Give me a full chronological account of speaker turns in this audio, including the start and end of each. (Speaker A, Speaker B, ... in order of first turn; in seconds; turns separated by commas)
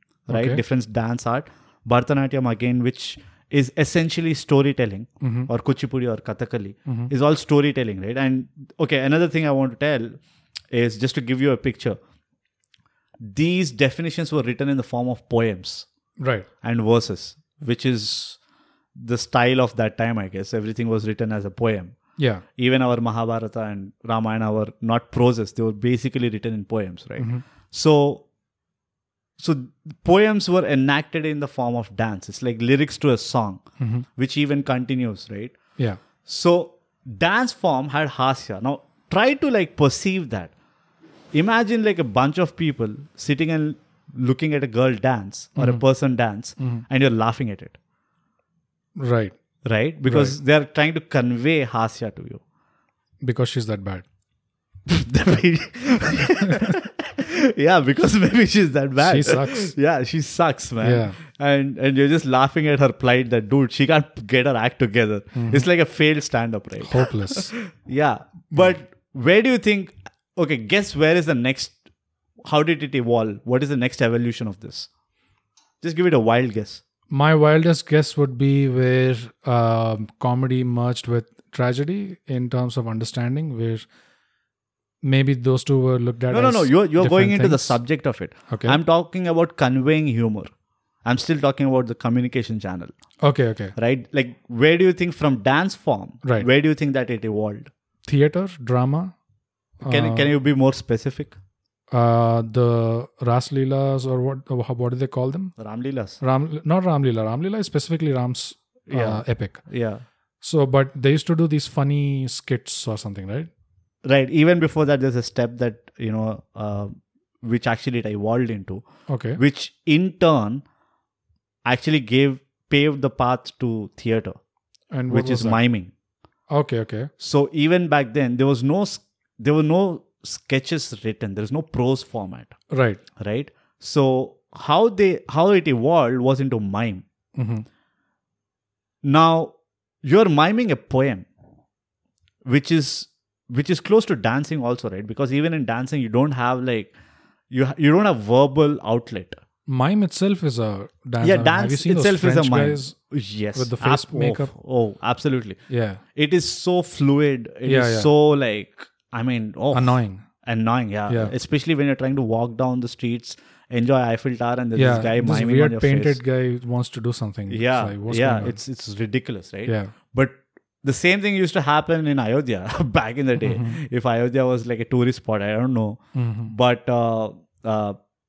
Speaker A: 0.3-10.2, Speaker B: 0.3-0.6, Speaker B: 5.2-5.5, Speaker A: 10.7-12.0, Speaker A: 13.2-15.9, Speaker B: 16.2-16.5, Speaker A: 16.6-18.4, Speaker A: 18.9-21.9, Speaker B: 22.2-22.4, Speaker A: 22.6-28.2, Speaker A: 29.4-33.6, Speaker B: 33.8-34.0, Speaker A: 34.1-35.6, Speaker A: 36.2-40.5, Speaker A: 41.3-47.8, Speaker B: 45.5-45.8, Speaker B: 49.0-49.3, Speaker A: 49.6-52.4, Speaker B: 50.1-50.4, Speaker B: 53.2-54.0, Speaker A: 54.9-71.8, Speaker B: 56.5-56.7, Speaker B: 59.0-59.7, Speaker B: 60.8-61.2, Speaker B: 65.3-65.7, Speaker B: 66.8-67.5, Speaker A: 72.5-74.9, Speaker A: 75.8-76.8, Speaker B: 77.1-83.8, Speaker B: 85.0-87.8, Speaker A: 86.3-90.5, Speaker B: 88.5-88.8, Speaker A: 91.0-92.9, Speaker B: 93.2-93.7, Speaker A: 93.8-97.7, Speaker B: 98.0-99.1, Speaker B: 99.8-100.3, Speaker A: 99.8-101.4, Speaker B: 101.9-105.5, Speaker A: 105.6-106.2, Speaker B: 106.2-109.6, Speaker A: 108.9-110.0, Speaker B: 110.4-113.5, Speaker A: 114.0-120.6, Speaker B: 119.1-119.4, Speaker A: 121.6-124.4, Speaker B: 124.9-125.6, Speaker A: 125.1-125.9, Speaker B: 126.5-127.1, Speaker A: 127.2-132.6, Speaker B: 132.7-133.0, Speaker A: 133.2-137.0, Speaker B: 137.3-137.7, Speaker A: 139.0-141.2, Speaker A: 142.4-146.9, Speaker A: 147.5-149.4, Speaker B: 149.7-152.9, Speaker A: 151.2-155.6, Speaker B: 153.5-154.5, Speaker B: 155.7-156.0, Speaker A: 156.1-166.2, Speaker B: 157.7-158.1, Speaker B: 159.7-160.2, Speaker B: 161.1-161.3, Speaker B: 164.8-168.6, Speaker A: 167.5-178.0, Speaker B: 169.7-169.9, Speaker B: 173.4-173.8, Speaker B: 176.1-176.5